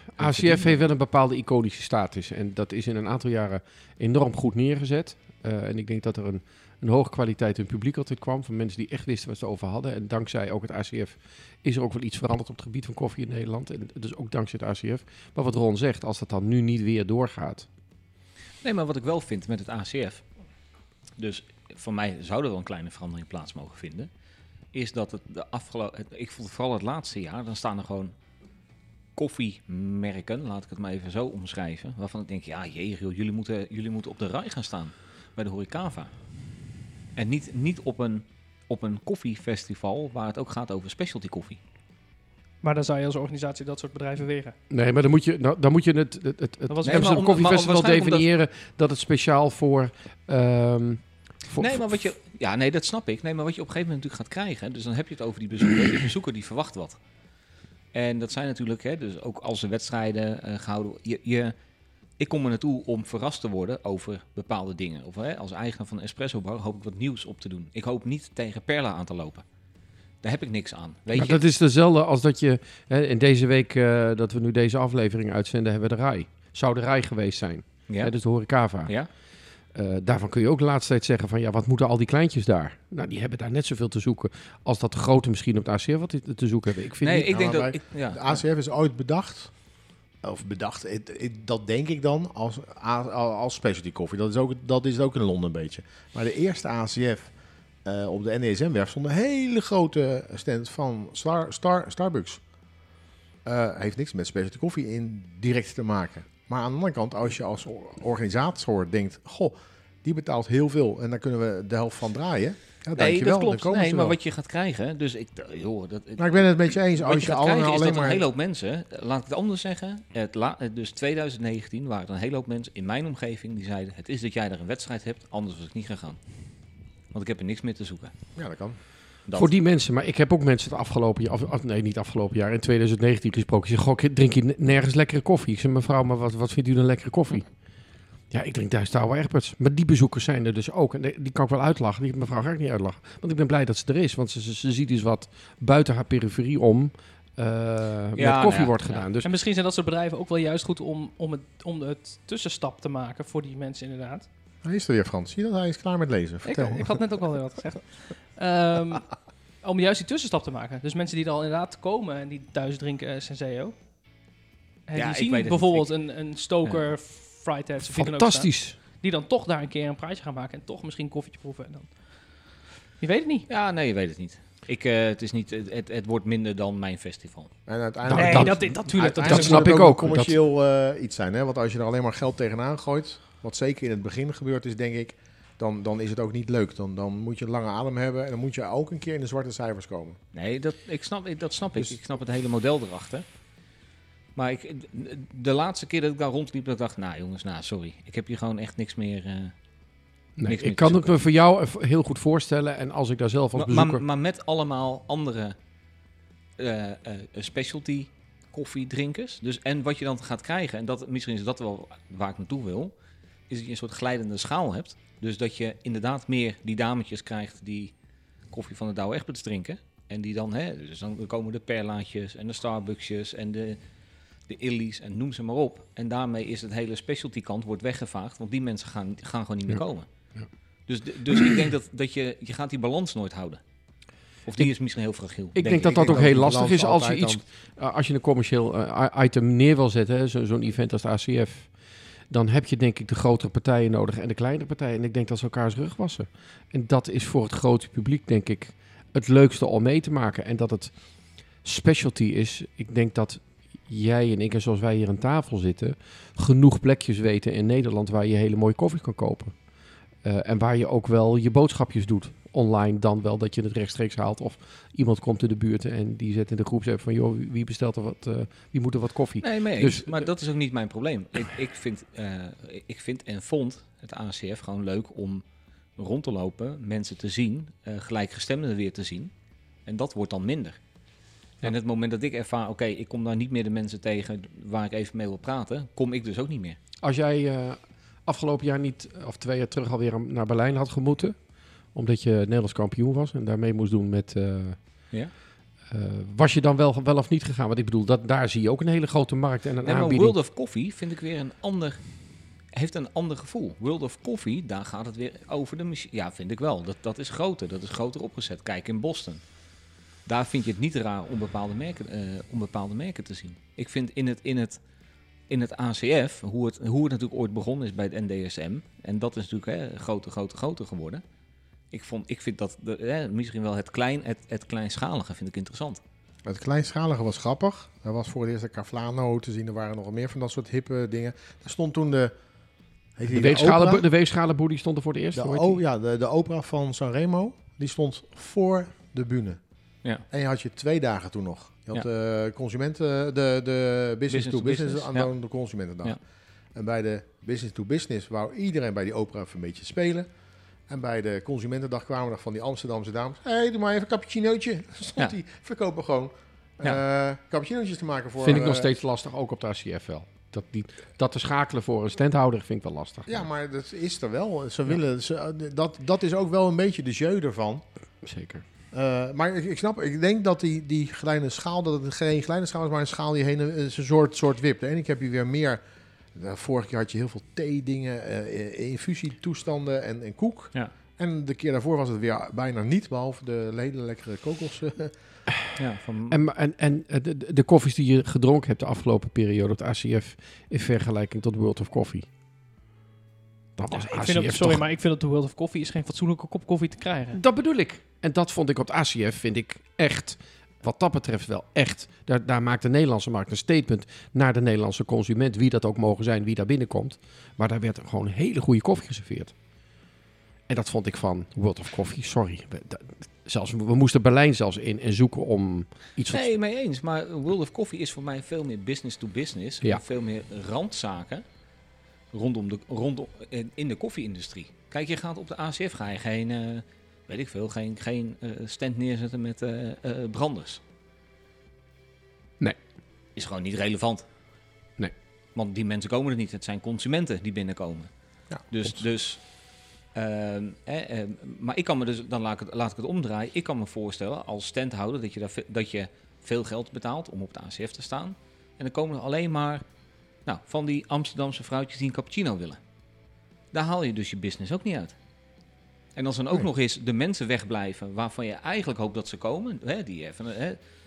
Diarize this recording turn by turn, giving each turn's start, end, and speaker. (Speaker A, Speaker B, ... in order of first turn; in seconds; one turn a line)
Speaker A: 0.2-0.8
Speaker B: 0.2-17.7
Speaker A: 18.6-20.2
Speaker A: 21.2-24.1
Speaker A: 24.7-28.1
Speaker A: 29.2-36.1
Speaker A: 37.1-41.6
Speaker C: 42.6-44.6
Speaker B: 44.7-52.0
Speaker C: 46.7-47.2
Speaker A: 46.8-48.3
Speaker A: 51.6-57.0
Speaker A: 57.9-61.5
Speaker A: 62.2-69.5
Speaker A: 70.2-71.4
Speaker B: 71.1-78.9
Speaker B: 79.7-87.3
Speaker A: 87.0-88.4
Speaker D: 87.3-89.5
Speaker D: 90.2-97.3
Speaker D: 97.8-102.4
Speaker D: 103.5-114.2
Speaker A: 113.0-126.2
Speaker D: 116.2-118.2
Speaker A: 127.1-128.1
Speaker D: 128.4-128.8
Speaker B: 129.3-137.5
Speaker B: 138.3-149.3
Speaker A: 148.2-149.1
Speaker C: 149.2-154.3
Speaker D: 154.6-157.0
Speaker C: 156.4-163.8
Speaker C: 164.9-172.4
Speaker A: 164.9-165.9
Speaker B: 167.8-168.8
Speaker C: 173.0-173.5
Speaker A: 173.5-177.5
Speaker D: 177.7-190.2
Speaker B: 178.1-180.3
Speaker C: 178.1-179.8
Speaker A: 190.3-193.2
Speaker A: 194.4-199.5
Speaker B: 200.4-204.0
Speaker A: 200.4-201.1
Speaker A: 203.6-205.6
Speaker A: 206.6-212.9
Speaker A: 213.5-217.9
Speaker A: 218.5-223.8
Speaker A: 224.5-230.1
Speaker A: 230.9-233.6
Speaker A: 234.4-236.4
Speaker B: 235.6-241.7
Speaker D: 235.7-237.4
Speaker B: 242.3-259.6
Speaker B: 260.2-270.3
Speaker A: 269.4-275.4
Speaker A: 276.0-279.3
Speaker A: 279.9-280.8
Speaker A: 281.6-286.8
Speaker B: 287.0-291.4
Speaker B: 291.9-294.8
Speaker B: 295.9-300.4
Speaker A: 299.8-302.1
Speaker A: 302.7-309.4
Speaker A: 310.3-314.8
Speaker A: 315.5-321.2
Speaker A: 321.9-326.0
Speaker D: 326.5-332.3
Speaker D: 333.2-334.0
Speaker B: 333.3-335.8
Speaker D: 335.4-339.6
Speaker D: 340.3-346.2
Speaker A: 344.3-345.3
Speaker D: 346.8-350.3
Speaker D: 350.9-358.9
Speaker B: 358.4-363.4
Speaker D: 363.3-367.8
Speaker B: 368.2-368.6
Speaker D: 368.9-375.8
Speaker D: 376.4-385.1
Speaker A: 385.8-386.4
Speaker B: 386.3-392.3
Speaker B: 393.8-394.8
Speaker C: 393.9-397.4
Speaker B: 397.3-409.5
Speaker B: 410.7-416.5
Speaker A: 416.3-421.4
Speaker A: 422.3-430.8
Speaker A: 433.4-434.3
Speaker A: 435.6-438.1
Speaker A: 438.7-439.4
Speaker A: 440.1-449.8
Speaker A: 450.5-452.8
Speaker A: 453.7-455.1
Speaker A: 456.2-460.8